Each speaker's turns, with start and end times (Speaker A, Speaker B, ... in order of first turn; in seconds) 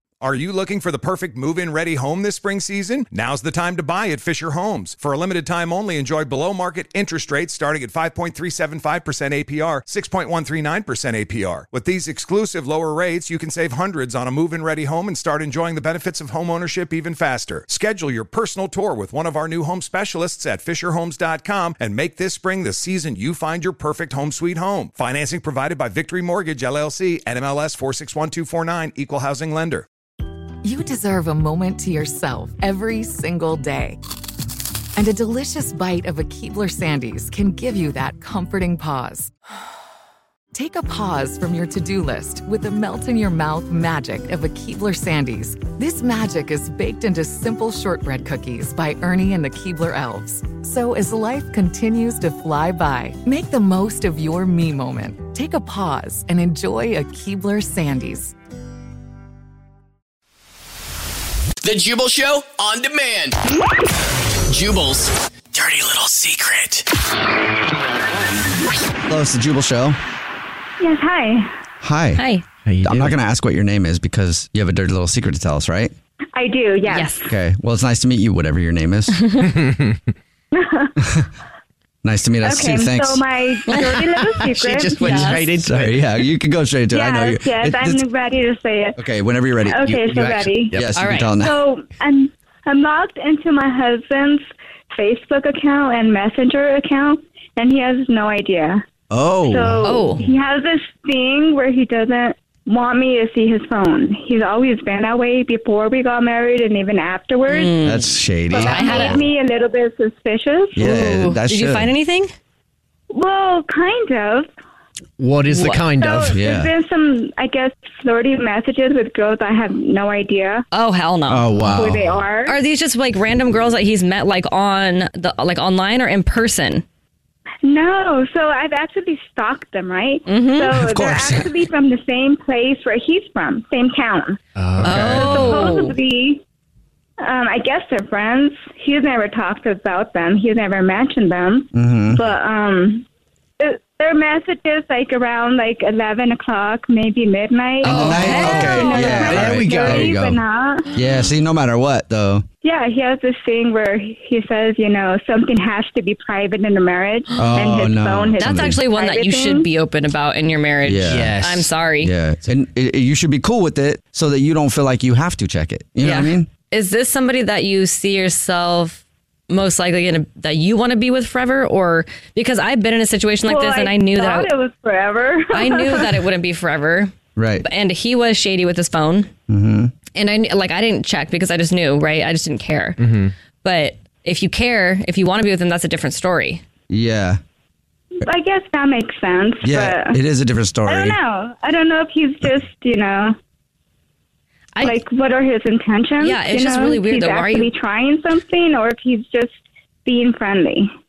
Speaker A: 0.2-29.9
Speaker B: 30.6-34.0, 35.0-39.3, 40.5-58.3
Speaker C: 61.6-63.4, 64.5-66.9
Speaker D: 69.1-70.0, 71.8-72.2, 72.8-75.9, 77.3-79.3, 81.0-81.3, 82.0-83.2, 85.5-88.0, 89.0-89.9, 90.7-91.6, 99.1-99.9, 107.8-109.2, 110.8-111.9, 116.3-116.7, 121.3-122.2, 130.8-131.5, 134.8-135.5, 141.7-142.2, 147.8-150.4, 150.9-152.4, 157.4-158.8, 160.8-161.4, 162.0-166.5, 177.4-177.6, 179.5-179.9, 186.9-187.4, 189.6-191.2
Speaker E: 70.8-71.5, 76.3-77.3, 80.5-80.9, 82.4-85.4, 86.9-89.0, 89.7-98.8, 99.5-107.8, 108.5-110.9, 113.1-114.5, 116.0-120.7, 121.7-122.6, 127.6-134.4, 135.1-136.4, 137.2-143.1, 143.6-150.9, 152.6-159.7, 173.5-176.2, 188.2-190.2, 190.9-193.3, 194.8-200.9
Speaker F: 72.2-72.4, 76.9-77.2, 85.0-85.5, 90.9-91.3, 99.8-100.3, 107.5-109.2, 110.8-112.3, 115.5-115.9, 120.7-121.5, 122.4-126.8, 130.3-130.8, 134.8-136.0, 148.1-149.4, 158.4-162.1, 166.0-174.5, 175.5-179.3, 180.2-183.0, 183.6-186.6, 196.2-197.7
Speaker G: 72.7-73.1, 84.1-86.0, 89.8-91.0, 115.2-116.3, 134.6-135.2, 147.8-148.2, 149.5-150.1, 161.1-161.8, 183.0-183.3